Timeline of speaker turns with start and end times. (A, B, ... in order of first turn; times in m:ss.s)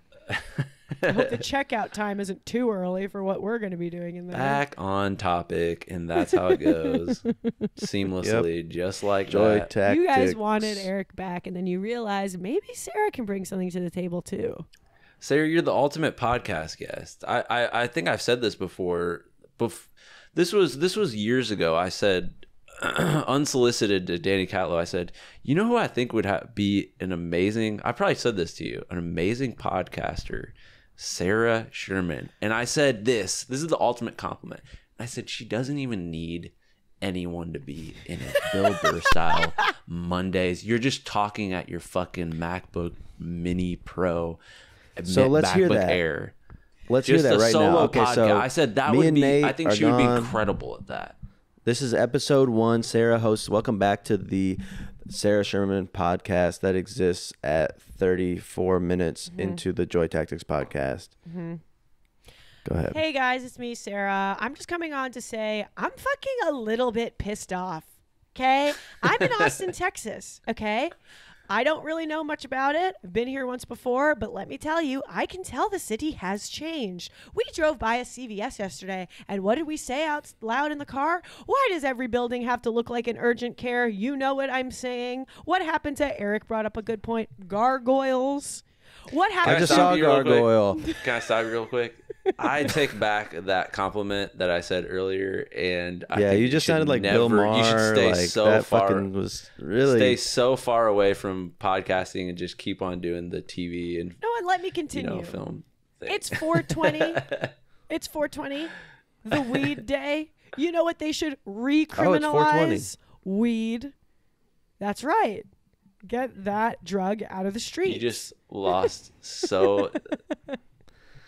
0:00.3-0:01.2 A
0:01.1-0:04.6 B
0:04.3-0:07.2 A
0:06.2-0:07.7 B
0:07.8-0:09.7 A
0:08.2-0:08.5 C
0:09.3-0:10.9 C
0:09.8-0:14.6 B
0:15.2-0:44.4 A
0:45.0-0:46.3 A
0:45.1-0:46.0 C
0:46.9-0:50.3 C
0:47.0-0:51.2 A
0:51.6-1:01.1 C
0:59.3-0:59.6 B
1:01.3-1:01.6 B
1:02.6-1:03.0 C
1:02.9-1:10.9 B
1:11.5-1:29.9 B
1:29.4-1:39.1 A
1:29.4-1:30.9 C
1:36.1-1:40.2 C
1:39.8-1:44.2 A
1:44.2-1:45.4 B
1:44.9-1:47.5 A
1:46.1-1:47.2 B
1:47.9-1:48.7 B
1:49.2-1:53.9 B
1:52.0-1:52.9 C
1:54.8-1:55.5 B
1:56.0-1:58.2 B
1:57.8-2:00.1 A